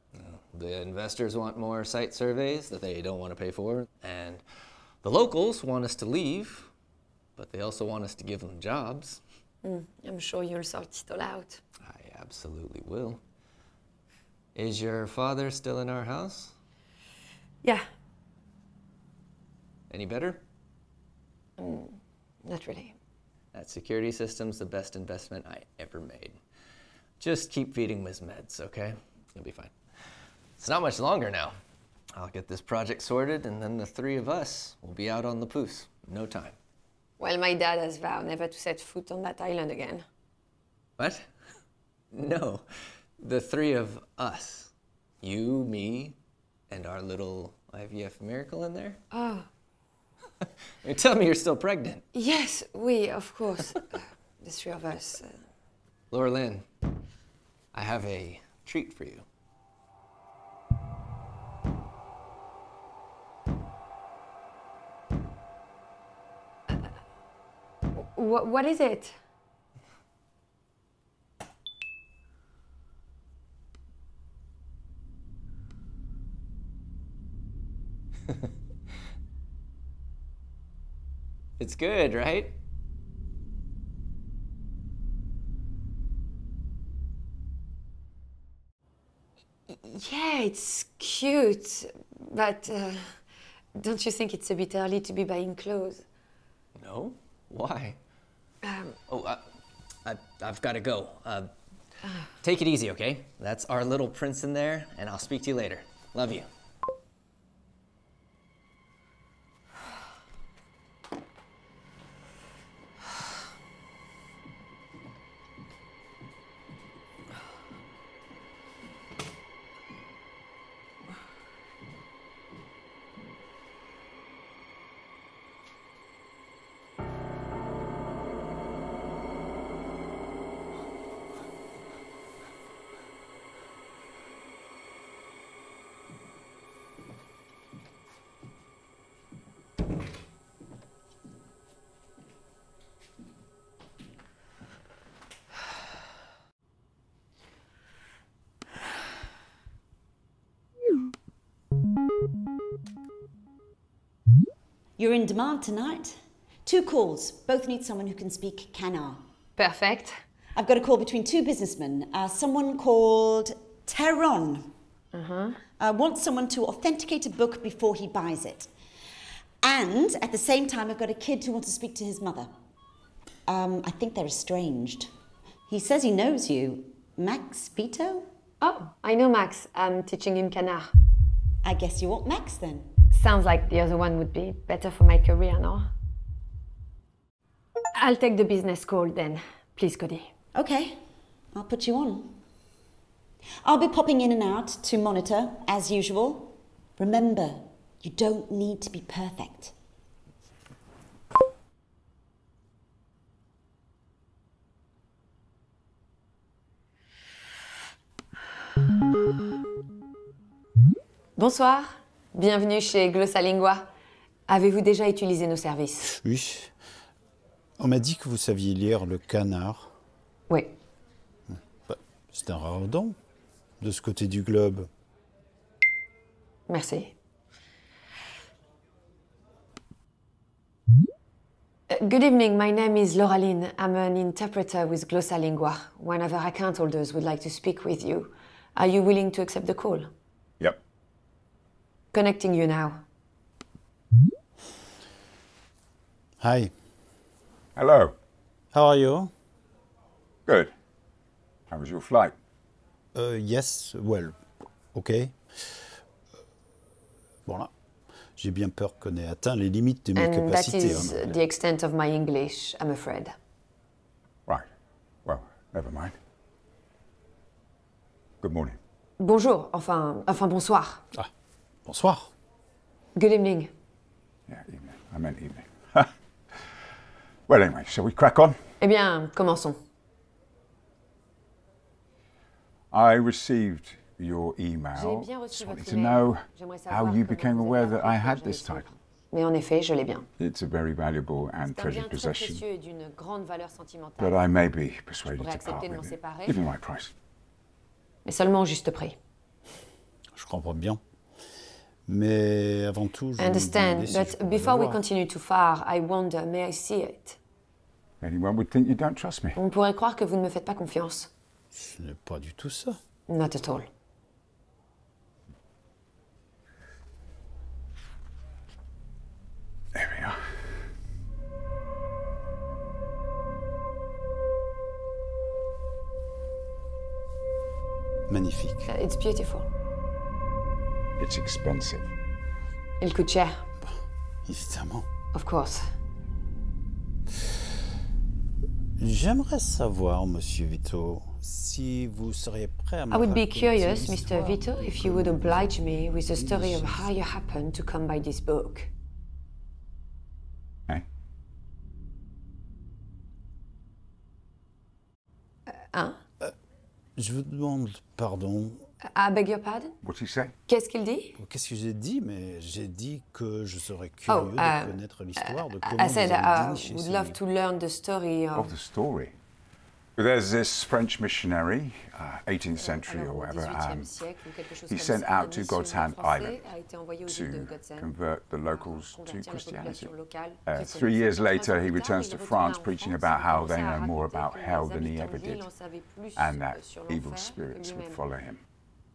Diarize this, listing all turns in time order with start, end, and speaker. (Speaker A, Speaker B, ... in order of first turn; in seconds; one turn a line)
Speaker A: 0.1-4.4
Speaker A: 5.0-6.7
Speaker A: 7.4-9.2
Speaker B: 9.6-11.6
Speaker A: 11.8-13.2
Speaker A: 14.5-16.5
Speaker A: 19.9-20.4
Speaker B: 21.6-22.9
Speaker A: 23.5-26.4
Speaker A: 27.2-29.7
Speaker A: 30.6-31.6
Speaker A: 32.1-36.6
Speaker B: 37.2-40.0
Speaker A: 41.0-41.3
Speaker A: 42.1-42.6
Speaker A: 43.2-46.2
Speaker A: 46.7-49.0
Speaker B: 49.1-49.5
Speaker A: 50.8-52.0
Speaker B: 52.1-55.4
Speaker A: 56.1-56.6
Speaker A: 57.7-59.2
Speaker B: 67.9-69.2
Speaker A: 81.6-82.5
Speaker B: 89.7-93.2
Speaker B: 93.7-96.0
Speaker A: 96.8-98.0
Speaker B: 98.6-99.0
Speaker A: 99.1-99.4
Speaker A: 100.0-101.5
Speaker A: 102.4-106.5
Speaker C: 155.0-159.2
Speaker B: 159.6-160.2
Speaker C: 160.6-164.7
Speaker B: 165.1-165.6
Speaker C: 165.8-168.7
Speaker C: 169.6-172.5
Speaker C: 173.5-175.1
Speaker C: 175.7-178.3
Speaker B: 178.6-180.9
Speaker C: 181.6-182.9
Speaker B: 183.1-185.9
Speaker B: 187.9-190.3
Speaker C: 190.5-191.0
Speaker C: 191.5-192.4
Speaker C: 193.6-199.7
Speaker B: 211.4-213.9
Speaker B: 214.5-216.2
Speaker D: 216.1-216.7
Speaker D: 217.8-219.9
Speaker B: 220.5-220.7
Speaker D: 221.5-223.2
Speaker D: 223.8-224.9
Speaker B: 226.7-227.1
Speaker B: 231.9-240.1
Speaker B: 242.1-243.0
Speaker D: 246.4-246.7
Speaker E: 247.8-248.1
Speaker D: 248.7-249.3
Speaker E: 250.5-250.7
Speaker E: 251.7-252.3
Speaker D: 253.1-254.4
Speaker D: 254.9-255.9
Speaker D: 257.4-257.7
Speaker D: 258.4-261.4
Speaker B: 260.1-263.3
Speaker E: 265.2-266.1
Speaker E: 268.4-268.8
Speaker B: 269.2-271.0
Speaker D: 271.8-272.3
Speaker B: 273.1-273.7
Speaker E: 274.5-276.1
Speaker E: 277.5-278.6
Speaker B: 278.8-279.8
Speaker E: 282.9-288.9
Speaker B: 284.9-290.3
Speaker E: 290.4-292.6
Speaker B: 291.6-294.4
Speaker E: 294.2-297.1
Speaker B: 295.2-296.6
Speaker B: 298.2-299.2
Speaker D: 300.3-301.0
Speaker D: 302.1-305.0
Speaker B: 303.4-307.4
Speaker E: 308.2-309.6
Speaker B: 309.6-311.3
Speaker D: 311.7-313.0
Speaker B: 313.3-313.9
Speaker E: 319.9-320.4
Speaker D: 328.3-328.9
Speaker B: 328.9-329.7
Speaker E: 331.2-332.1
Speaker B: 333.0-333.6
Speaker D: 334.4-335.1
Speaker B: 335.3-335.9
Speaker D: 339.0-347.1
Speaker B: 343.1-348.9
Speaker B: 355.7-356.2
Speaker D: 357.2-358.9
Speaker B: 359.0-360.0
Speaker E: 360.0-360.5
Speaker B: 360.7-361.4
Speaker D: 361.4-367.4
Speaker B: 364.3-368.7
Speaker E: 368.5-369.4
Speaker E: 370.1-374.1
Speaker B: 372.8-378.1
Speaker E: 374.9-376.7
Speaker E: 377.2-380.1
Speaker B: 378.7-388.2
Speaker E: 380.7-385.7
Speaker E: 386.4-388.6